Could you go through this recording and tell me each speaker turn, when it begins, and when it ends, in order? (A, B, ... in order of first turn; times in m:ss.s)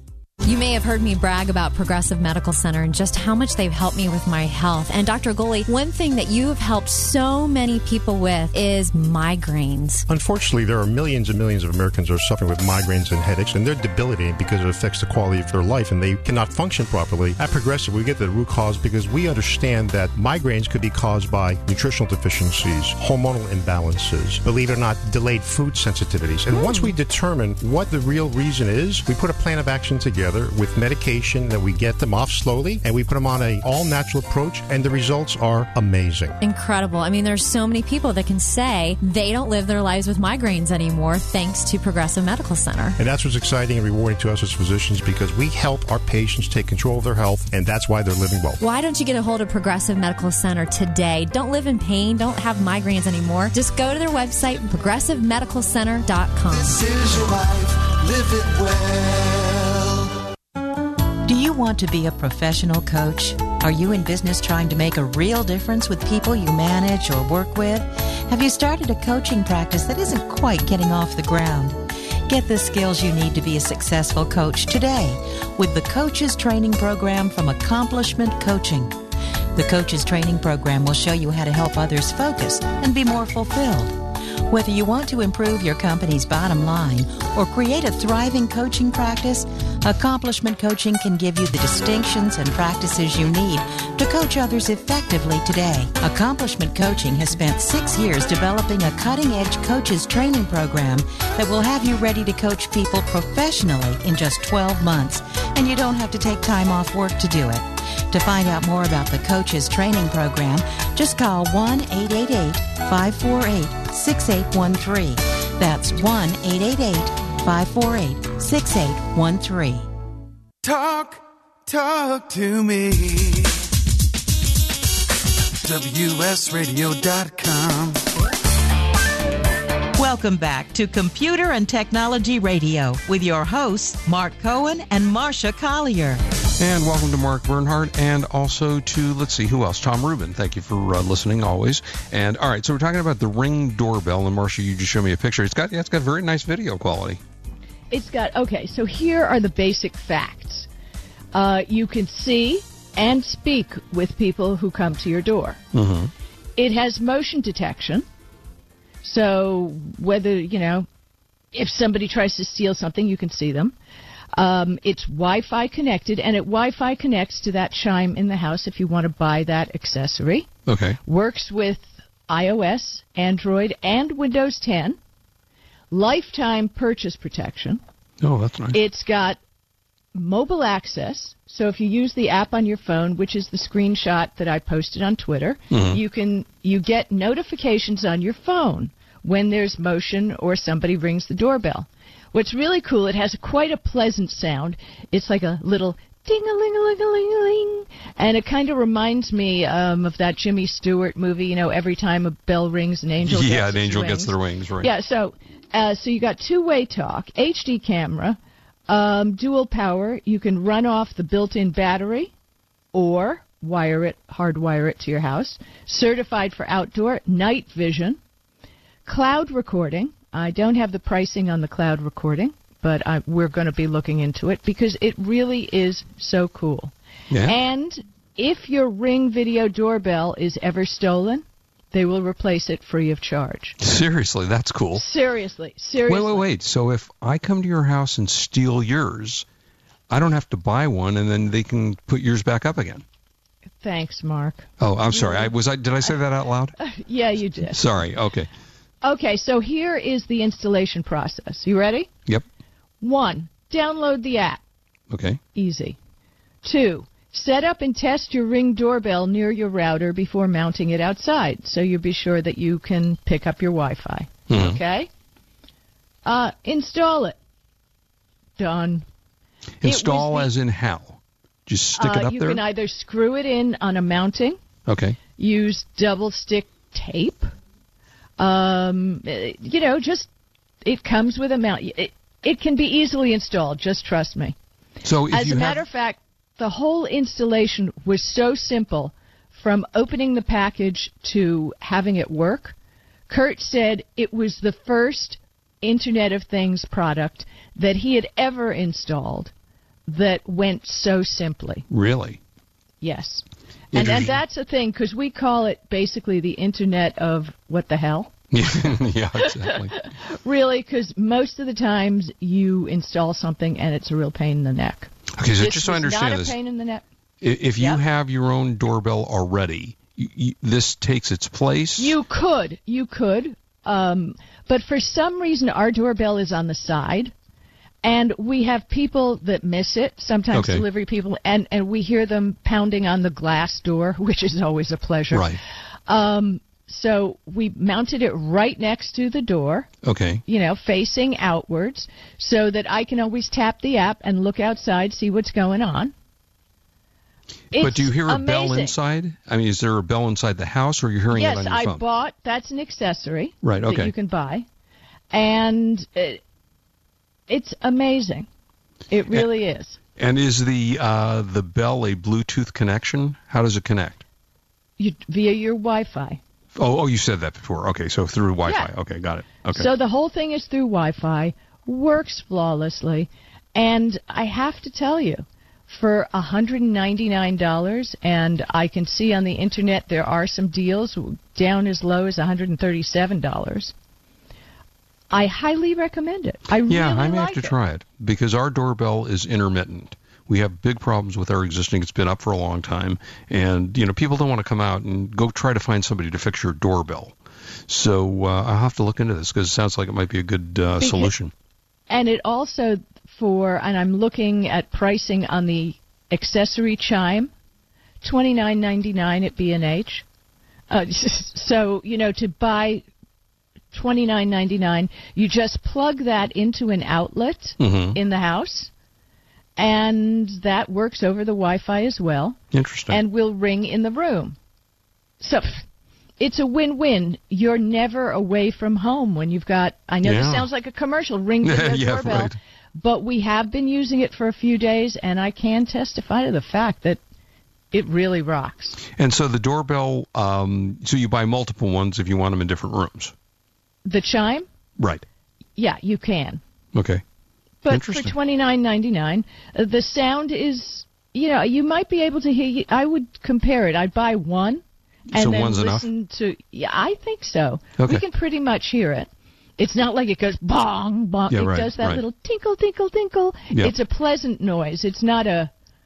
0:00.4-0:10.1 A
0:10.1-0:36.4 B
0:26.5-0:26.9 A
0:36.4-0:43.0 A
0:43.0-0:48.6 B
0:48.6-0:56.7 A
0:56.5-1:00.1 C
1:01.3-1:19.0 D
1:19.6-1:59.9 D
2:00.6-2:03.6 C
2:05.6-2:08.0 C
2:10.0-2:16.2 D
2:16.6-2:27.2 E
2:27.9-2:30.7 F
2:31.3-2:35.6 F
2:35.7-2:36.1 E
2:36.6-2:38.0 F
2:39.0-2:40.9 F
2:41.5-2:43.8 F
2:44.4-2:50.5 F
2:50.7-2:51.0 E
2:51.0-2:55.0 F
2:55.9-2:57.8 F
2:58.2-2:58.8 E
2:58.7-2:59.4 F
3:00.2-3:32.3 F
3:05.7-3:06.0 E
3:23.2-3:24.9 E
3:32.9-3:38.2 F
3:39.1-3:53.8 F
3:47.3-3:47.6 E
3:53.8-3:55.0 E
3:55.0-3:56.5 F
3:56.1-3:59.4 E
4:00.1-4:03.0 E
4:03.8-4:05.5 F
4:04.8-4:06.8 E
4:06.8-4:07.8 F
4:07.7-4:08.5 E
4:09.0-4:12.1 F
4:13.0-4:14.6 F
4:15.1-4:15.4 E
4:15.5-4:16.0 F
4:16.6-4:25.1 F
4:24.5-4:24.8 E
4:26.2-4:27.4 F
4:28.6-4:29.0 F
4:29.8-4:32.6 E
4:29.8-4:30.5 F
4:32.0-4:34.6 F
4:34.9-4:35.2 E
4:35.4-4:37.5 F
4:38.4-4:40.3 F
4:40.8-4:44.6 F
4:45.0-4:45.8 E
4:45.3-4:52.8 F
4:53.3-4:59.5 F
5:00.1-5:01.8 F
5:01.9-5:02.4 E
5:03.0-5:08.3 F
5:03.9-5:04.4 E
5:08.5-5:09.9 E
5:09.4-5:17.0 F
5:15.4-5:16.6 E
5:17.4-5:22.2 E
5:22.0-5:27.3 F
5:28.0-5:39.9 F
5:30.5-5:30.8 E
5:35.3-5:35.6 E
5:40.0-5:40.4 E
5:40.5-5:46.1 F
5:47.7-5:49.0 F
5:47.8-5:52.0 E
5:51.3-5:54.7 F
5:53.6-5:54.1 E
5:55.3-5:56.4 F
5:57.5-5:58.5 F
5:59.1-6:00.0 F
6:00.2-6:04.2 E
6:05.0-6:06.4 F
6:06.8-6:09.9 E
6:09.7-6:23.9 F
6:25.3-6:27.7 F
6:26.9-6:37.4 E
6:37.9-6:41.5 E
6:41.0-6:41.3 F
6:42.1-6:47.5 F
6:48.2-6:50.2 F
6:50.9-6:53.0 F
6:53.9-6:58.9 F
6:57.8-6:58.2 E
6:59.8-7:02.6 F
7:02.7-7:03.2 E
7:03.1-7:04.6 F
7:05.4-7:05.8 F
7:06.4-7:17.2 F
7:10.2-7:10.7 E
7:11.6-7:12.6 E
7:17.9-7:19.0 F
7:19.1-7:23.3 E
7:24.0-7:24.7 F
7:25.0-7:25.2 E
7:25.8-7:26.6 F
7:26.9-7:27.2 E
7:27.8-7:45.7 F
7:27.9-7:28.3 E
7:35.3-7:36.0 E
7:38.0-7:38.2 E
7:41.5-7:42.2 E